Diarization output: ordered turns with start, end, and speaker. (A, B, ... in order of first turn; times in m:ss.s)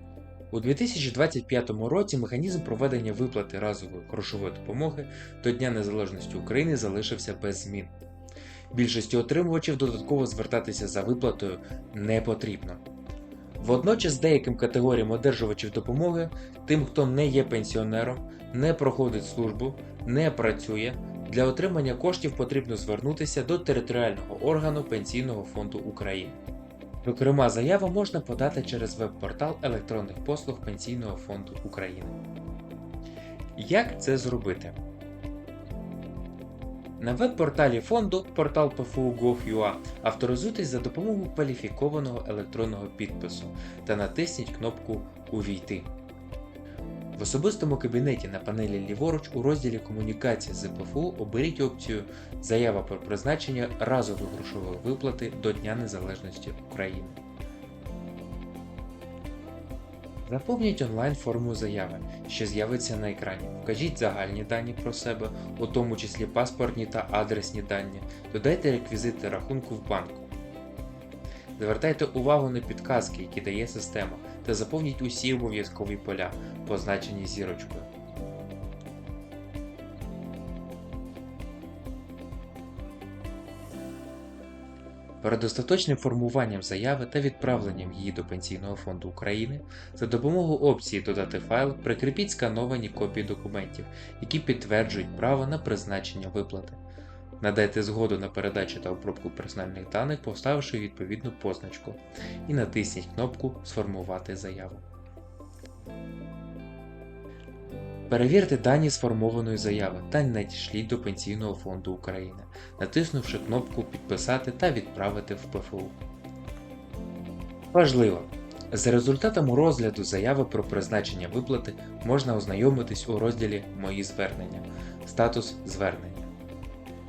0:00.5-0:07.9 A
0:08.7-0:12.8 A
0:13.6-0:26.4 A
0:27.0-0:32.2 A
0:33.6-0:34.8 A
0:37.0-0:45.9 A
0:47.2-0:57.2 A
1:00.3-1:10.3 A
1:11.6-1:17.9 A
1:25.2-1:36.8 A
1:37.4-1:44.8 A
1:48.1-1:56.0 A
1:57.7-2:06.3 A